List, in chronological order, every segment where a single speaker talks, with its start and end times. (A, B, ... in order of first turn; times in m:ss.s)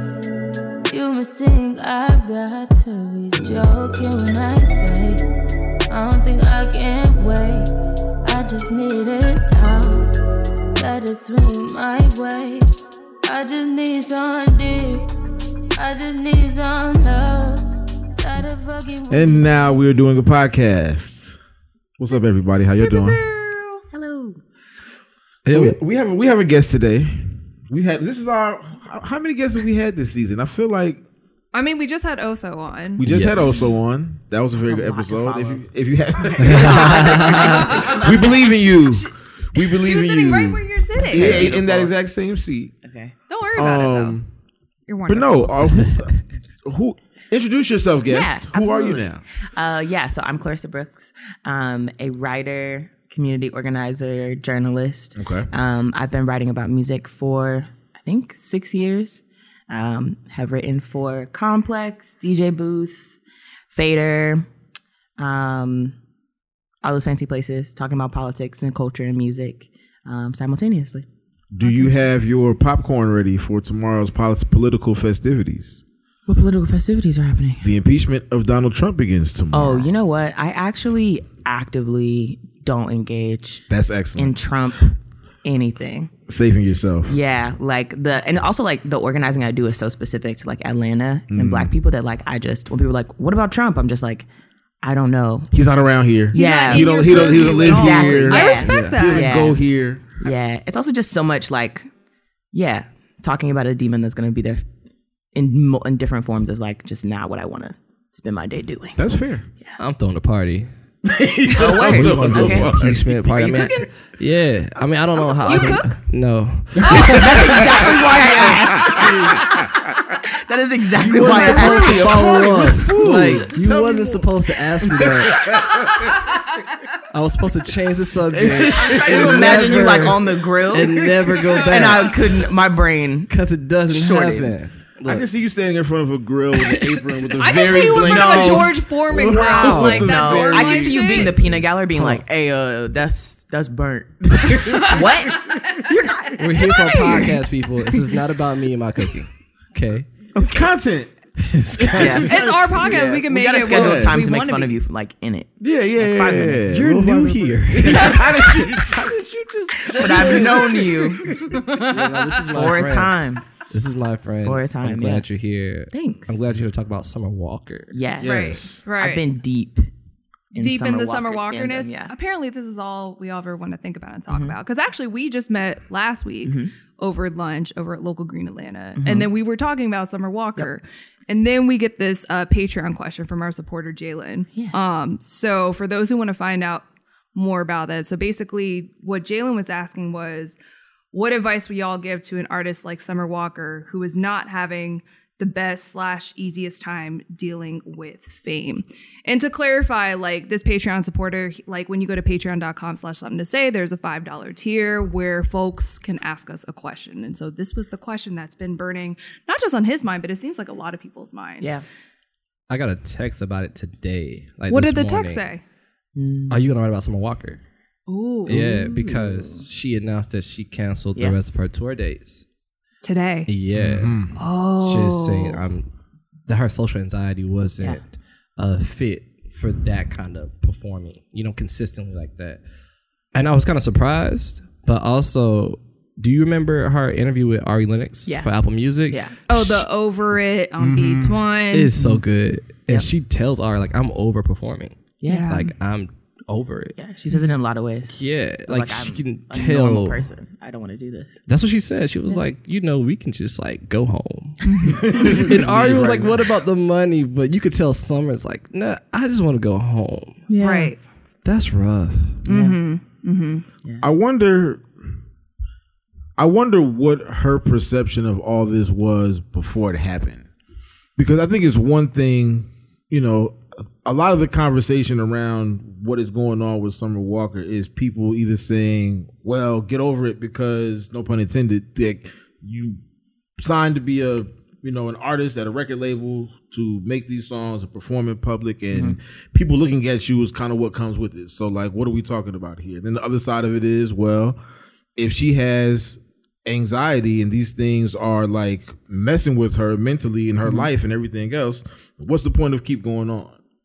0:00.9-0:05.2 A
0:05.9-0:07.7 A
0:08.2-0:10.1 A
0:10.8-0:12.7 A
0:13.2-0:15.1 A
0:15.8-0:17.6 A
0:18.2-0:19.8 A
0:19.1-0:21.4 B
0:22.0-0:23.2 B
0:22.8-0:23.8 C
0:23.9-0:24.4 D
0:25.4-0:25.8 E
0:25.5-0:31.0 B
0:31.5-0:33.0 C
0:33.0-0:42.8 B
0:33.0-0:33.7 E
0:34.6-0:35.7 D
0:36.2-0:38.3 D
0:36.4-0:37.6 E
0:36.9-0:41.5 C
0:41.1-0:41.9 D
0:41.2-0:41.6 E
0:42.8-0:43.1 D
0:43.3-0:44.2 C
0:43.6-0:44.3 B
0:44.9-0:45.7 C
0:45.1-0:49.2 B
0:48.1-1:03.2 D
0:55.2-0:55.5 B
1:03.7-1:04.5 D
1:05.2-1:06.0 D
1:06.8-1:11.0 D
1:11.5-1:15.8 B
1:11.6-1:11.9 D
1:16.3-1:17.6 D
1:17.6-1:19.9 B
1:19.5-1:26.1 D
1:23.7-1:24.3 B
1:26.3-1:27.2 B
1:27.1-1:34.3 D
1:31.3-1:31.7 B
1:34.8-1:35.5 D
1:35.5-1:40.2 B
1:36.3-1:39.6 D
1:36.3-1:39.4 C
1:38.6-1:39.0 E
1:40.2-1:41.9 D
1:42.5-1:44.6 D
1:45.3-1:49.8 D
1:49.0-1:49.5 B
1:49.8-1:50.7 E
1:51.0-1:53.3 B
1:51.5-1:53.9 D
1:51.8-1:58.0 E
1:55.2-1:55.8 D
1:55.4-1:56.0 C
1:56.8-1:59.6 D
1:56.9-2:00.2 B
2:00.2-2:03.4 D
2:01.0-2:05.6 E
2:01.0-2:04.3 B
2:04.8-2:06.2 B
2:07.1-2:12.2 E
2:08.3-2:10.2 B
2:08.9-2:13.3 D
2:10.9-2:11.3 B
2:11.4-2:12.1 C
2:13.3-2:15.3 E
2:13.8-2:14.5 D
2:15.0-2:21.7 B
2:17.3-2:21.3 C
2:18.0-2:18.8 D
2:19.5-2:20.0 E
2:19.7-2:27.4 D
2:21.9-2:22.2 E
2:24.7-2:25.0 B
2:24.9-2:25.7 C
2:26.4-2:30.1 E
2:26.6-2:27.3 C
2:30.3-2:34.2 B
2:31.4-2:32.3 E
2:32.0-2:32.3 D
2:32.0-2:34.7 C
2:32.9-2:36.7 D
2:35.6-2:39.2 B
2:36.7-2:40.9 E
2:37.8-2:38.4 D
2:39.9-2:41.8 D
2:39.9-2:40.8 B
2:41.5-2:42.5 C
2:41.8-2:47.9 E
2:42.5-2:43.5 D
2:44.4-2:45.2 D
2:45.9-2:46.4 D
2:47.9-2:49.9 D
2:48.2-2:48.8 B
2:48.2-2:49.2 C
2:50.5-2:52.1 D
2:50.6-3:10.6 C
2:54.3-2:54.6 D
2:56.4-2:56.7 D
2:59.0-2:59.3 D
3:11.1-3:31.7 C
3:32.7-3:35.4 E
3:34.7-3:35.6 C
3:36.2-3:36.6 D
3:36.5-3:37.6 E
3:38.1-3:38.9 C
3:38.5-3:39.6 D
3:38.5-3:42.4 E
3:43.0-3:43.5 C
3:43.5-3:45.9 E
3:43.7-3:44.3 B
3:44.3-3:45.6 C
3:46.5-3:52.6 E
3:53.3-3:59.9 E
3:59.1-3:59.4 D
3:59.5-4:01.9 C
4:00.8-4:01.4 B
4:01.7-4:06.9 E
4:01.9-4:02.2 D
4:05.2-4:05.6 D
4:05.3-4:05.7 C
4:07.0-4:11.4 D
4:08.1-4:10.2 E
4:11.5-4:20.4 E
4:14.8-4:15.5 D
4:14.9-4:16.4 B
4:20.5-4:20.9 D
4:20.6-4:21.0 C
4:21.4-4:22.4 E
4:22.4-4:22.8 D
4:22.4-4:23.6 C
4:24.0-4:24.9 B
4:26.4-4:30.4 B
4:31.2-4:43.0 B
4:43.6-4:54.6 B
4:48.9-4:49.2 D
4:55.2-5:03.6 B
5:00.6-5:00.9 D